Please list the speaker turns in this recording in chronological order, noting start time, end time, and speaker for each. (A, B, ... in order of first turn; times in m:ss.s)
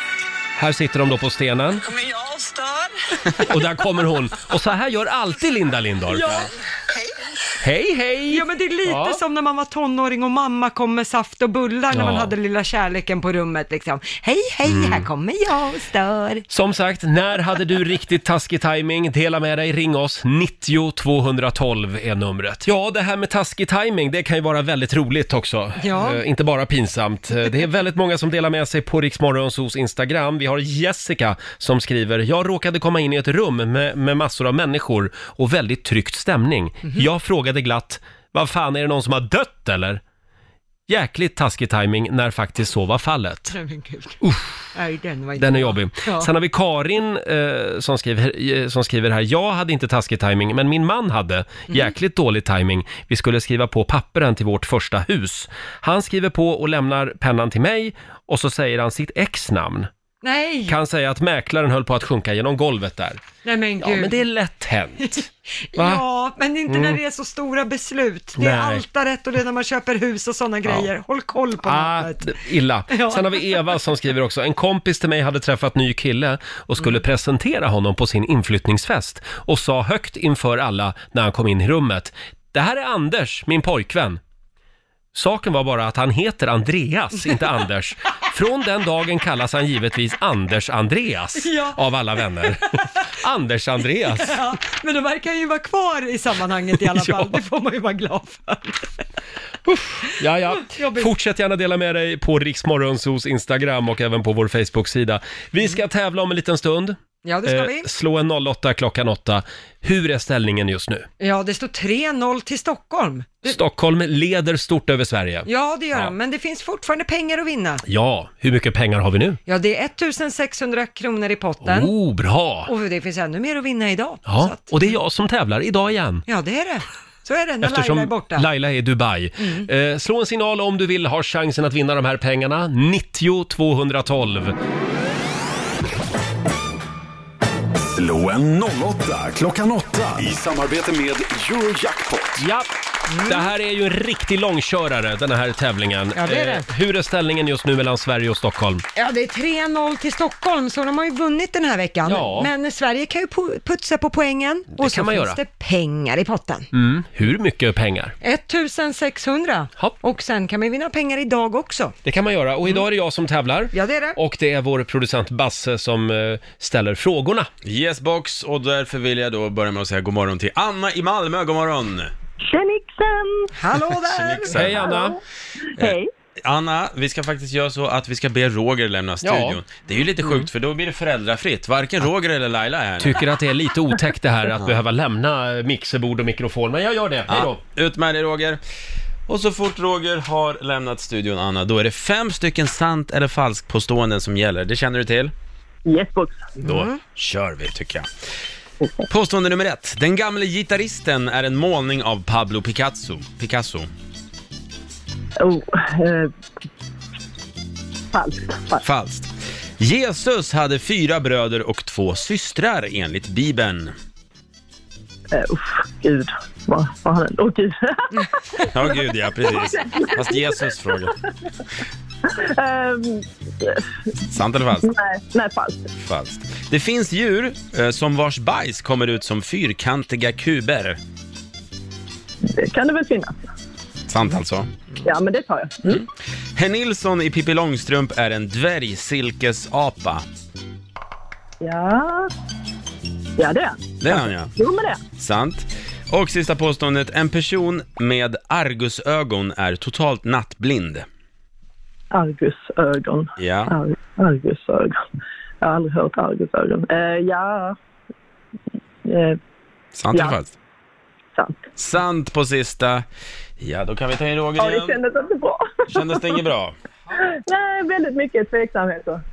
0:00.6-0:01.8 A
0:03.4-0:06.5 A
0:06.1-0:06.4 B
0:07.6-0:09.2 A
0:08.3-0:16.4 B
0:11.9-0:12.3 A
0:14.6-0:15.1 A
0:16.5-0:40.0 A
0:25.8-0:26.2 B
0:40.9-0:43.6 A
0:43.5-0:44.2 B
0:44.2-0:44.7 A
0:44.7-0:46.3 B
0:45.4-0:59.9 A
1:00.2-1:00.8 B
1:00.7-1:03.2 A
1:03.4-1:04.2 B
1:03.8-1:05.2 A
1:05.7-1:12.3 B
1:05.8-1:06.0 A
1:06.7-1:07.0 A
1:08.4-1:08.8 A
1:11.6-1:24.2 A
1:12.9-1:13.6 B
1:25.1-1:34.4 A
1:31.4-1:31.8 B
1:34.1-1:38.9 B
1:36.9-1:37.4 A
1:39.6-1:51.1 A
1:40.5-1:41.1 B
1:47.2-1:47.9 B
1:51.2-1:53.6 B
1:53.4-1:56.1 A
1:55.4-1:57.8 B
1:57.8-1:59.4 A
1:59.5-2:01.9 B
2:01.6-2:02.7 A
2:02.7-2:05.0 B
2:04.3-2:06.2 A
2:06.3-2:08.5 B
2:07.6-2:14.6 A
2:09.4-2:09.7 B
2:17.8-2:22.4 C
2:22.4-2:22.7 A
2:23.1-2:23.5 B
2:23.2-2:28.8 A
2:26.1-2:26.6 B
2:28.9-2:36.7 B
2:32.1-2:32.5 A
2:34.8-2:35.4 A
2:36.7-2:38.1 A
2:38.2-2:41.9 B
2:42.0-2:47.5 A
2:43.7-2:44.2 B
2:47.6-2:52.1 D
2:52.4-2:53.5 E
2:53.6-2:54.8 B
2:54.1-2:54.9 D
2:54.5-2:55.2 A
2:54.9-2:55.2 E
2:55.8-2:56.1 E
2:55.8-3:03.2 D
2:59.2-2:59.6 A
3:03.0-3:07.6 A
3:07.3-3:08.6 D
3:09.3-3:15.3 D
3:15.8-3:16.6 E
3:16.6-3:18.1 D
3:16.6-3:17.0 B
3:18.8-3:19.1 E
3:19.1-3:23.9 D
3:25.4-3:26.3 E
3:28.1-3:28.8 E
3:28.8-3:33.9 D
3:35.3-3:40.7 E
3:38.7-3:41.1 D
3:42.3-3:43.8 E
3:44.3-3:44.9 D
3:44.8-3:45.9 E
3:46.0-3:51.0 D
3:52.5-3:53.4 E
3:54.1-3:54.7 D
3:55.0-3:56.0 E
3:55.8-4:00.2 D
4:01.6-4:02.3 E
4:03.4-4:05.0 E
4:04.0-4:04.5 D
4:05.2-4:11.1 D
4:12.1-4:15.0 E
4:13.4-4:13.7 D
4:15.6-4:17.8 E
4:19.0-4:19.4 E
4:19.9-4:20.5 D
4:21.3-4:21.6 E
4:21.8-4:23.0 D
4:23.6-4:25.0 D
4:24.6-4:26.4 E
4:25.9-4:26.8 D
4:27.3-4:29.2 E